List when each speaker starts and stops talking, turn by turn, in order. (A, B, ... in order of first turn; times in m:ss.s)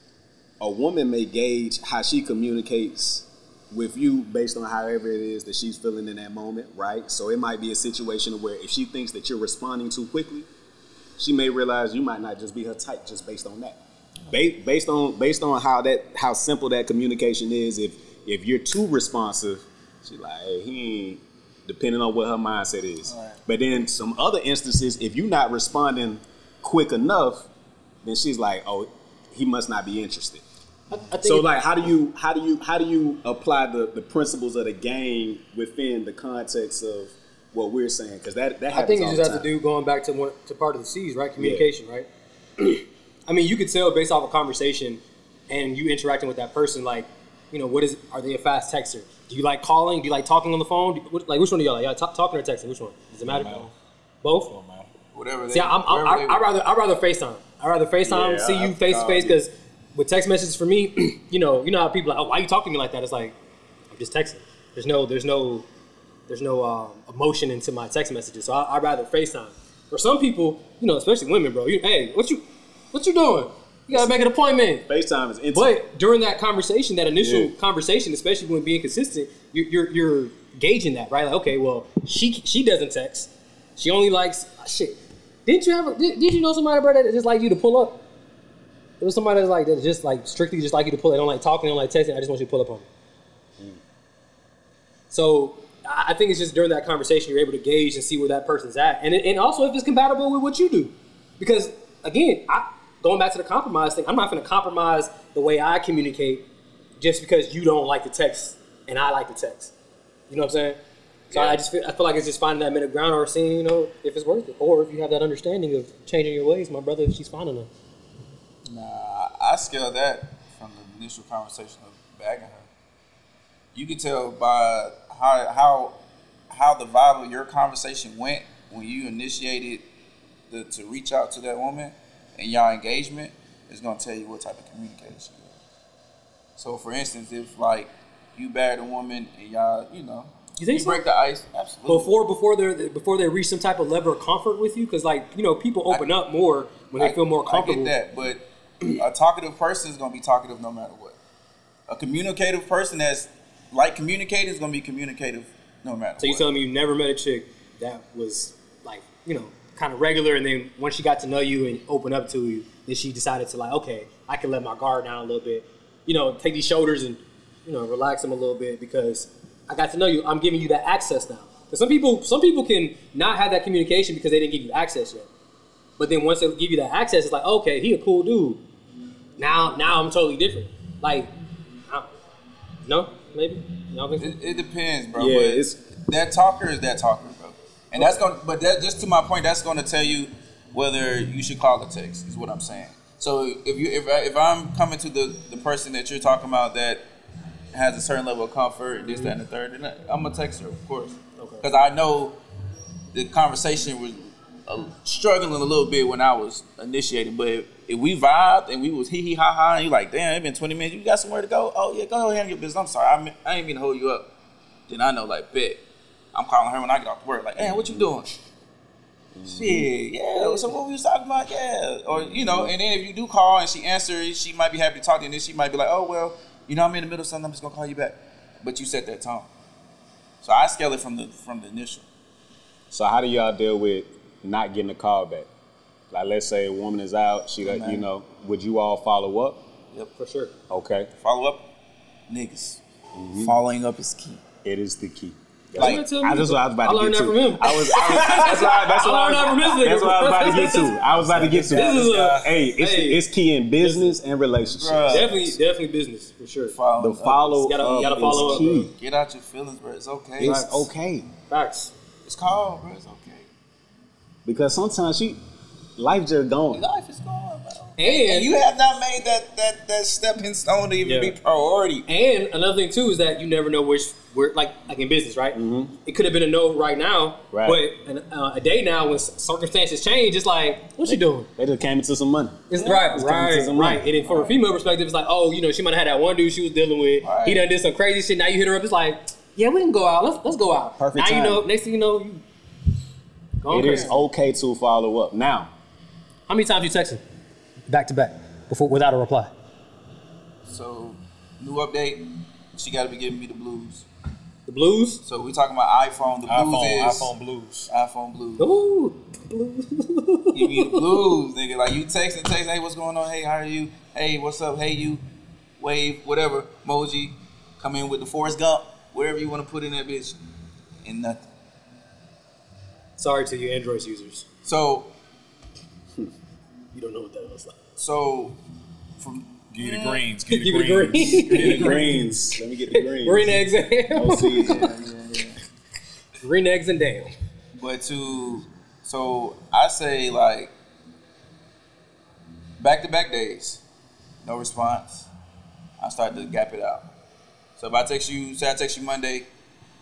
0:00.6-0:10.5 A
0:11.2-0:13.8 A
0:14.3-0:27.5 A
0:23.1-0:23.4 B
0:28.0-0:30.4 A
0:30.9-0:31.5 C
0:31.2-0:39.5 A
0:38.7-0:53.7 C
0:41.4-0:41.7 A
0:53.3-0:53.7 D
0:54.2-0:54.5 C
0:54.4-0:54.9 D
0:55.1-0:56.5 B
0:55.5-1:03.4 C
0:58.0-0:59.4 A
1:03.9-1:05.7 C
1:06.3-1:14.9 C
1:14.9-1:15.8 A
1:15.5-1:28.0 C
1:17.2-1:17.5 A
1:29.0-1:32.9 C
1:35.1-1:46.4 C
1:47.0-1:49.7 C
1:50.3-1:50.8 C
1:51.3-1:57.7 C
1:51.3-1:51.6 B
1:58.7-2:02.7 B
2:03.7-2:06.0 B
2:06.5-2:09.8 B
2:10.5-2:15.6 B
2:16.6-2:22.1 B
2:20.6-2:21.0 C
2:21.9-2:27.9 C
2:27.0-2:31.2 B
2:31.9-2:36.5 B
2:36.2-2:55.3 C
2:56.0-2:58.6 C
2:59.4-3:01.3 C
3:02.8-3:04.4 C
3:04.2-3:17.0 B
3:05.2-3:05.8 A
3:17.7-3:22.4 B
3:21.4-3:21.6 C
3:23.1-3:34.3 B
3:34.9-3:35.8 B
3:36.3-3:38.4 B
3:37.6-3:38.1 A
3:39.3-3:39.9 A
3:39.4-3:49.5 B
3:40.4-3:40.6 C
3:42.2-3:42.7 A
3:50.4-3:52.1 B
3:52.9-3:55.5 A
3:56.1-3:59.6 A
3:57.6-3:58.1 B
4:00.2-4:00.5 C
4:00.7-4:01.1 A
4:01.2-4:01.6 B
4:02.3-4:02.8 B
4:03.2-4:03.6 A
4:03.4-4:04.4 B
4:04.6-4:15.5 A
4:05.8-4:11.0 C
4:05.8-4:06.0 B
4:08.1-4:09.6 B
4:11.2-4:12.6 D
4:11.6-4:13.2 C
4:13.8-4:14.1 B
4:14.6-4:15.5 B
4:15.1-4:16.8 C
4:16.7-4:20.6 B
4:17.0-4:18.9 A
4:17.7-4:18.8 C
4:20.4-4:21.3 A
4:20.4-4:20.9 C
4:21.5-4:21.9 C
4:22.2-4:23.5 B
4:24.4-4:25.4 A
4:26.0-4:26.8 A
4:26.7-4:32.1 B
4:28.0-4:28.5 C
4:31.0-4:31.4 C
4:32.1-4:41.5 C
4:35.5-4:35.9 A
4:37.5-4:37.8 A
4:41.1-4:44.0 A
4:42.7-4:52.4 C
4:42.8-4:43.1 B
4:44.2-4:44.6 B
4:47.2-4:47.6 B
4:51.0-4:51.7 A
4:53.6-4:54.1 C
4:53.7-4:55.7 A
4:53.8-4:54.1 B
4:56.5-4:57.2 C
4:57.9-4:59.5 C
5:00.7-5:04.1 B
5:04.7-5:05.2 C
5:05.2-5:07.3 B
5:06.5-5:07.9 D
5:07.9-5:08.8 B
5:08.6-5:11.0 C
5:10.5-5:15.2 B
5:15.8-5:20.4 B
5:21.0-5:21.4 B
5:23.2-5:24.4 C
5:24.6-5:25.1 B
5:26.9-5:27.8 C
5:28.0-5:28.6 B
5:29.2-5:30.2 B
5:29.7-5:31.6 D
5:30.5-5:34.8 C
5:31.1-5:32.2 B
5:31.5-5:34.9 A
5:34.6-5:35.6 B
5:36.4-5:37.3 C
5:37.8-5:40.7 B
5:42.8-5:43.8 B
5:44.4-5:45.3 B
5:46.0-5:47.1 B
5:47.8-5:49.5 B